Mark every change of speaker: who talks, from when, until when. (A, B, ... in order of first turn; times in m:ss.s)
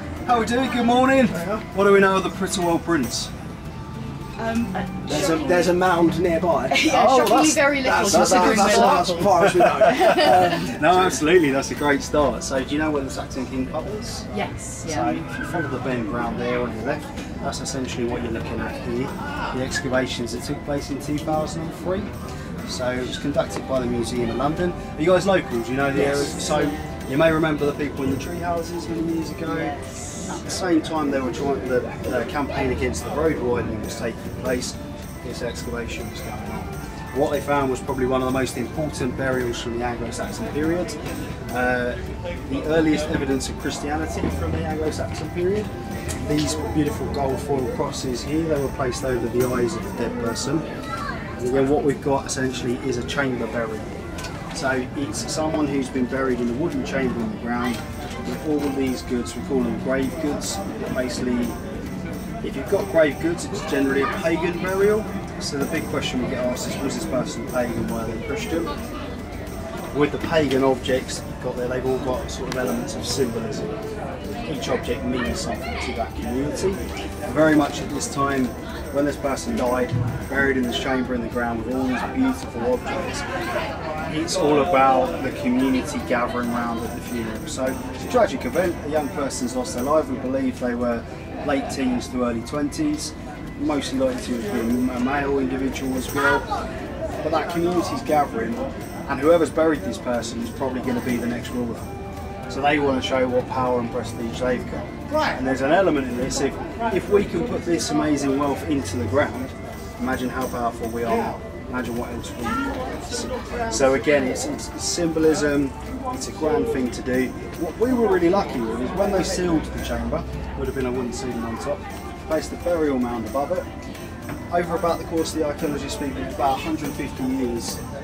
0:00.2-0:03.3 A
0:01.3-0:01.6 B
0:04.4-0:05.8 C
0:05.1-0:11.0 B
0:06.7-0:10.6 C
0:06.9-0:14.3 A
0:14.3-0:15.2 C
0:14.8-0:22.1 A
0:22.7-0:29.8 A
0:26.0-0:26.9 C
0:29.6-0:30.4 C
0:30.3-0:41.0 A
0:41.5-0:45.7 A
0:46.2-0:50.6 A
0:51.4-0:53.9 A
0:54.5-1:01.6 A
1:02.4-1:08.7 A
1:09.9-1:13.7 A
1:14.5-1:23.2 A
1:24.1-1:36.5 A
1:37.2-1:41.9 A
1:42.5-2:03.7 A
2:04.5-2:07.8 A